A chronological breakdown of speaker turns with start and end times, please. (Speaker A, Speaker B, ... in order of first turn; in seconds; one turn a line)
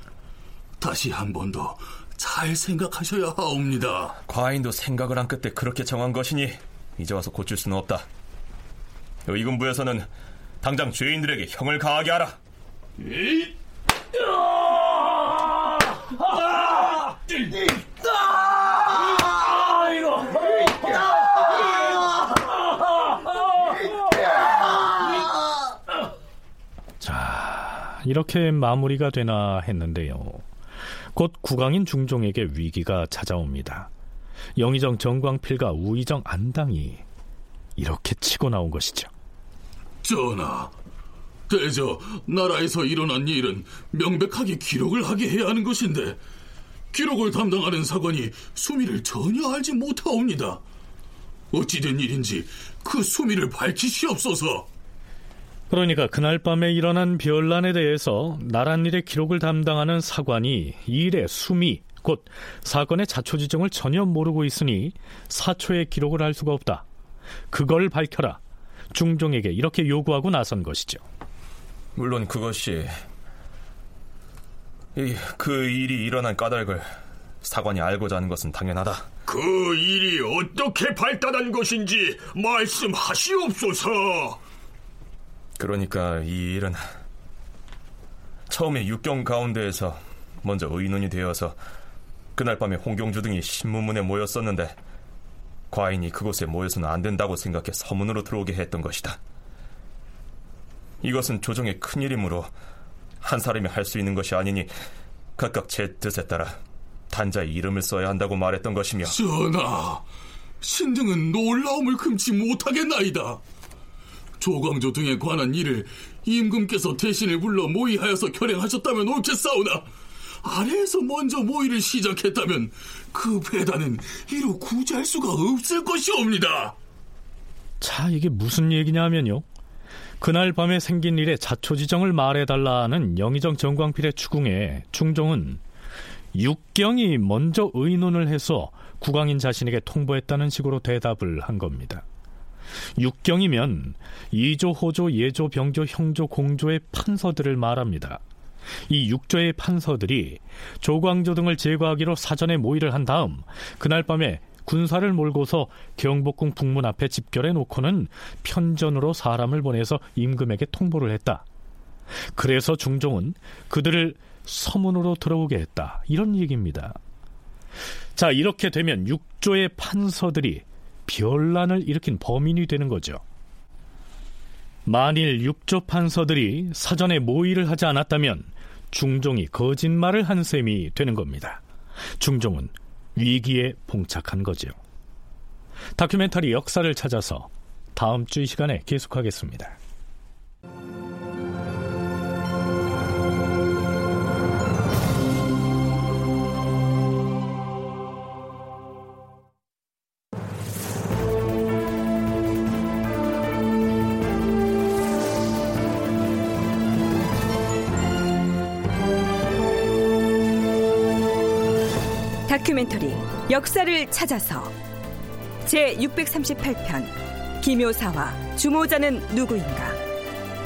Speaker A: 0.8-4.2
Speaker B: 4.3-8.1
Speaker B: 9.3-10.1
Speaker B: 10.6-12.4
Speaker A: 13.2-13.5
Speaker C: 27.0-30.4
Speaker C: 31.1-33.9
Speaker C: 34.6-37.0
Speaker C: 37.8-39.1
Speaker A: 40.0-40.7
Speaker A: 41.5-46.2
Speaker A: 46.9-50.6
Speaker A: 51.5-54.7
Speaker C: 55.7-66.8
Speaker C: 67.5-68.4
Speaker C: 68.9-71.0
Speaker B: 72.0-72.9
Speaker B: 75.0-76.9
Speaker B: 77.4-79.1
Speaker D: 79.3-84.4
Speaker B: 85.6-86.8
Speaker B: 88.5-91.6
Speaker B: 92.4-94.8
Speaker B: 95.7-99.2
Speaker B: 101.0-102.5
Speaker B: 103.2-104.7
Speaker B: 105.4-106.6
Speaker B: 107.1-109.2
Speaker A: 109.0-110.0
Speaker A: 110.6-113.4
Speaker A: 114.4-119.9
Speaker A: 120.4-126.8
Speaker C: 127.8-129.4
Speaker C: 130.2-135.6
Speaker C: 136.3-142.0
Speaker C: 143.0-148.2
Speaker C: 148.9-161.4
Speaker C: 162.3-167.0
Speaker C: 168.2-173.2
Speaker C: 174.9-181.6
Speaker C: 182.2-184.8
Speaker C: 186.0-189.8
Speaker E: 212.5-214.8
Speaker E: 215.7-220.0